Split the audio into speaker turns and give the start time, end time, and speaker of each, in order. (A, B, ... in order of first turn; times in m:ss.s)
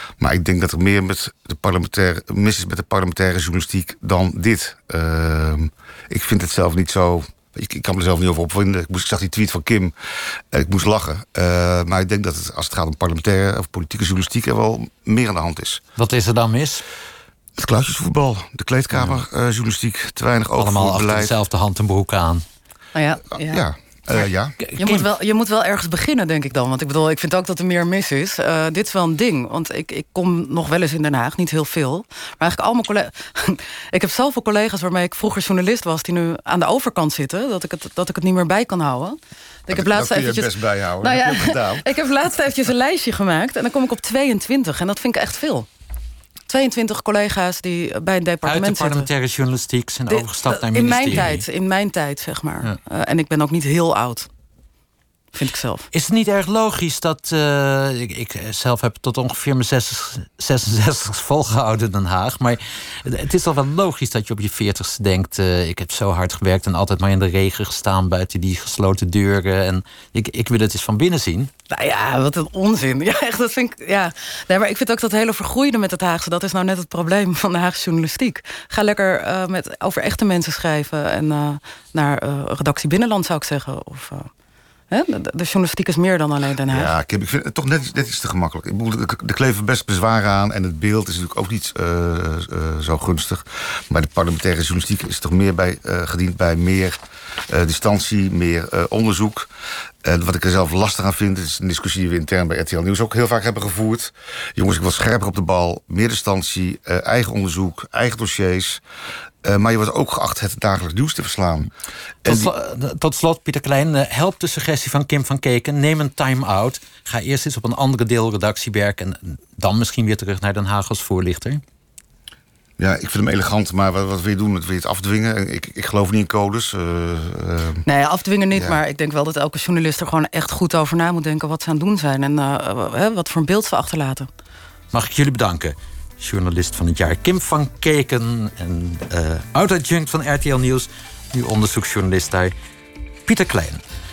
0:00.2-0:09.9 A
0:10.5-0:15.8 A
0:16.0-0:16.8 B
0:17.6-0:21.4 A
0:18.9-0:19.2 B
0:20.6-0:22.4 B
0:22.9-0:23.6 C
0:23.4-0:24.6 A
0:24.6-0:25.0 B
0:24.8-0:45.7 C
0:39.7-0:41.9 A
0:46.5-0:49.1 C
0:48.4-0:51.4 B
0:50.1-0:54.3 C
0:55.3-0:55.9 C
0:55.9-1:11.5 B
1:11.7-1:24.3 C
1:24.9-1:26.9 C
1:26.7-1:37.0 A
1:37.5-1:39.5 A
1:40.0-1:48.8 A
1:49.4-1:51.7 A
1:52.2-1:52.5 A
1:52.2-2:01.6 B
2:02.8-2:07.8 A
2:07.9-2:14.3 C
2:14.9-2:22.5 B
2:23.3-2:23.8 B